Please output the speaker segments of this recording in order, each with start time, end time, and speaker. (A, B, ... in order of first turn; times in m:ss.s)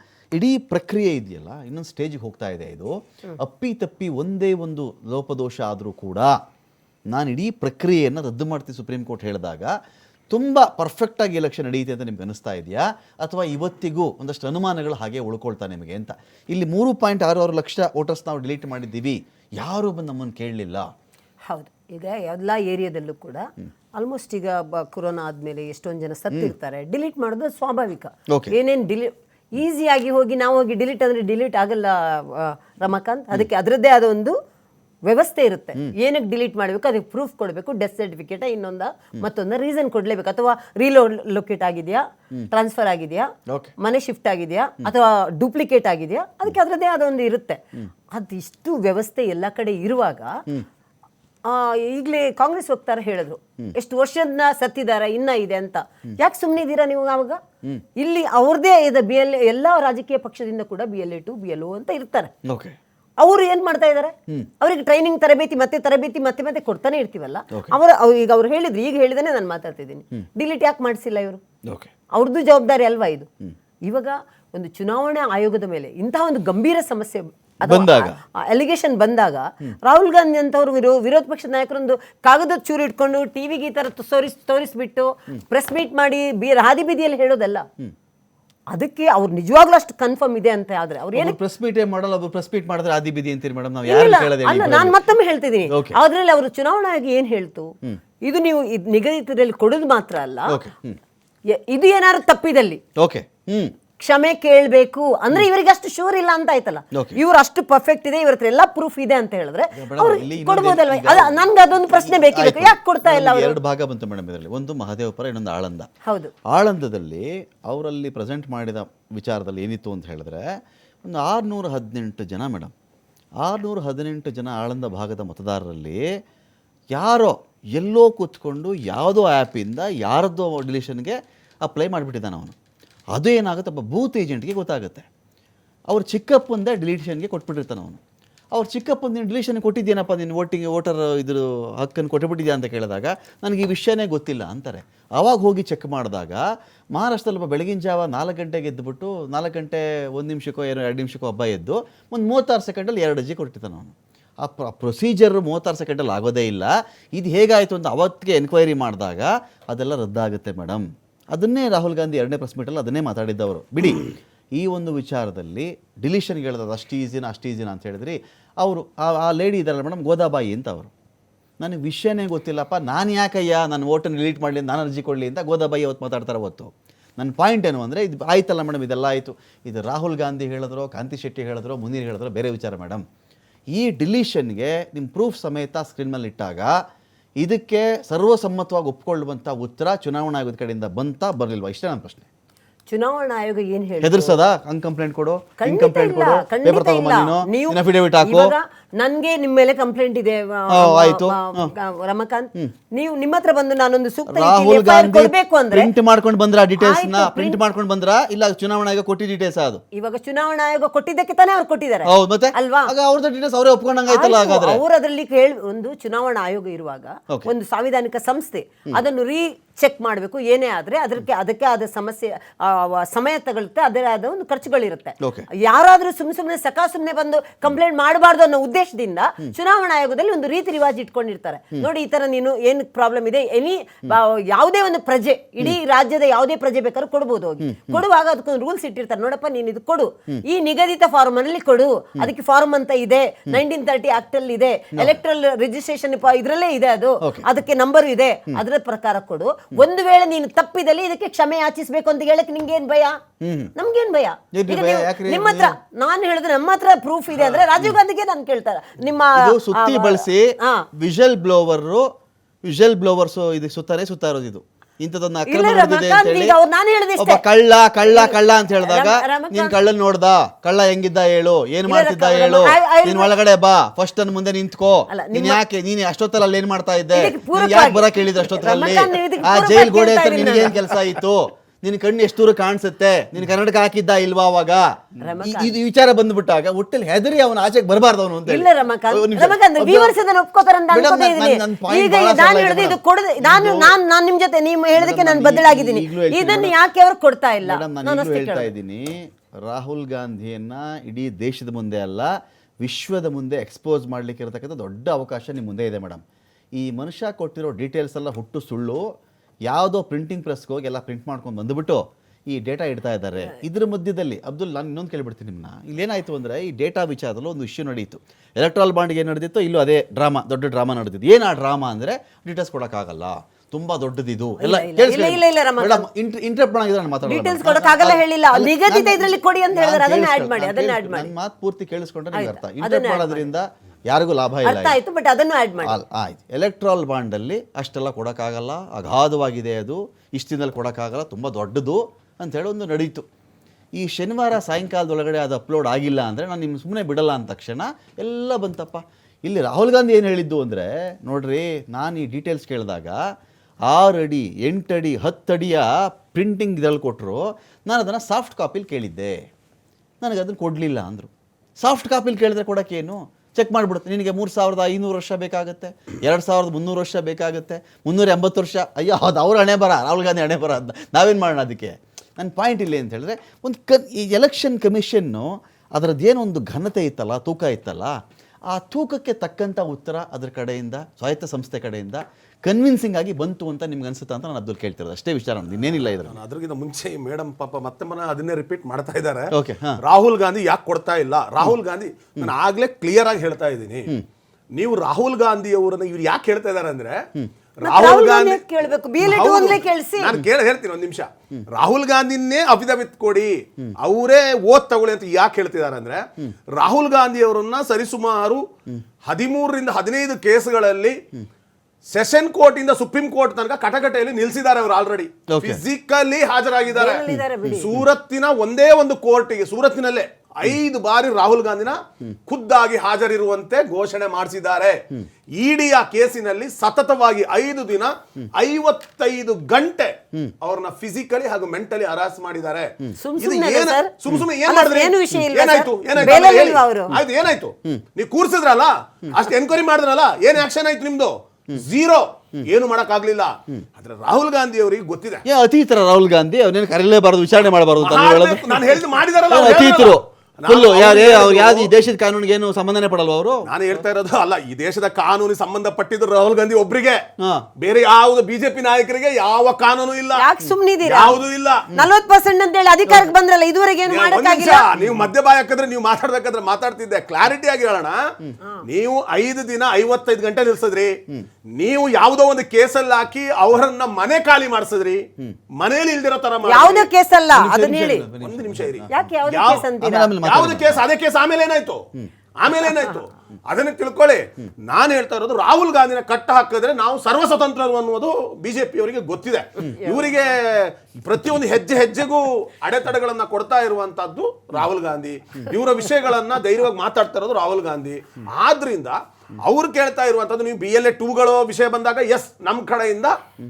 0:00.3-0:06.3 A
0:07.1-0:09.7 A
0:10.3-0:20.9 A
0:21.5-0:23.4 B
0:24.0-0:34.3 B
0:28.3-0:28.5 A
0:35.1-0:47.6 B
0:43.5-0:43.7 A
0:48.1-0:50.3 B
0:51.4-0:57.4 B
0:58.0-1:02.3 B
1:02.4-1:02.8 A
1:03.2-1:11.4 B
1:12.1-1:13.3 B
1:13.9-1:27.6 B
1:17.6-1:18.2 A
1:28.7-1:31.4 B
1:31.1-1:35.0 A
1:33.8-1:37.7 B
1:35.7-1:36.0 A
1:38.2-1:40.6 B
1:40.5-1:41.0 A
1:41.5-1:42.8 B
1:43.0-1:43.7 A
1:44.0-1:53.6 B
1:46.9-1:47.2 A
1:49.7-1:55.9 A
1:56.0-1:56.3 B
1:56.5-2:00.4 A
2:01.0-2:02.7 A
2:03.4-2:06.0 A
2:06.9-2:12.5 A
2:13.1-2:15.1 A
2:15.9-2:18.0 A
2:18.5-2:26.4 A
2:26.9-2:50.9 A
2:51.6-3:03.0 A
3:03.7-3:06.7 A
3:07.4-3:12.3 A
3:12.9-3:14.4 B
3:14.0-3:18.5 A
3:15.6-3:25.9 B
3:20.7-3:21.7 A
3:24.3-3:29.8 A
3:26.8-3:27.6 B
3:30.0-3:32.9 B
3:32.0-3:34.8 A
3:34.1-4:13.2 B
3:45.2-3:45.5 A
3:57.6-3:58.0 A
4:07.2-4:07.5 A
4:13.4-4:13.7 A
4:13.8-4:20.9 B
4:14.5-4:15.7 A
4:17.3-4:17.9 A
4:19.3-4:22.0 A
4:22.6-4:26.5 A
4:25.5-4:27.4 B
4:27.2-4:50.1 A
4:28.0-4:29.8 B
4:31.8-4:33.3 B
4:35.1-4:35.6 B
4:37.1-4:41.2 B
4:45.2-4:45.7 B
4:48.4-4:58.7 B
4:50.9-4:53.9 A
4:54.9-4:56.7 A
4:57.6-5:02.3 A
5:02.8-5:06.2 A
5:06.8-5:09.0 A
5:09.7-5:35.0 A
5:24.6-5:26.1 B
5:27.3-5:31.3 B
5:32.3-5:33.5 B
5:34.6-5:36.0 B
5:35.8-5:43.2 A
5:44.0-5:53.2 A
5:53.9-5:59.4 A
6:00.2-6:18.2 A
6:18.7-6:26.4 A
6:26.2-6:29.5 C
6:29.5-6:30.0 A
6:30.0-6:34.1 C
6:34.8-6:37.2 C
6:37.8-6:38.6 C
6:37.8-6:40.4 B
6:39.2-6:48.6 C
6:49.2-6:51.2 C
6:52.1-7:05.0 C
6:55.5-6:55.8 A
6:56.9-6:58.0 B
7:05.6-7:25.4 C
7:13.2-7:14.1 B
7:14.6-7:17.2 B
7:16.2-7:16.5 A
7:25.4-7:33.7 A
7:28.0-7:31.9 C
7:33.6-7:37.2 C
7:37.4-7:37.6 A
7:37.8-7:40.5 C
7:40.3-7:44.9 B
7:41.0-7:42.0 C
7:44.1-7:48.3 C
7:48.8-7:51.2 C
7:51.7-7:57.1 C
7:56.6-7:58.3 B
7:57.5-7:59.1 A
7:58.4-7:59.8 C
7:59.1-8:00.4 B
8:00.0-8:01.0 A
8:00.4-8:02.0 C
8:02.6-8:23.3 C
8:09.9-8:10.4 B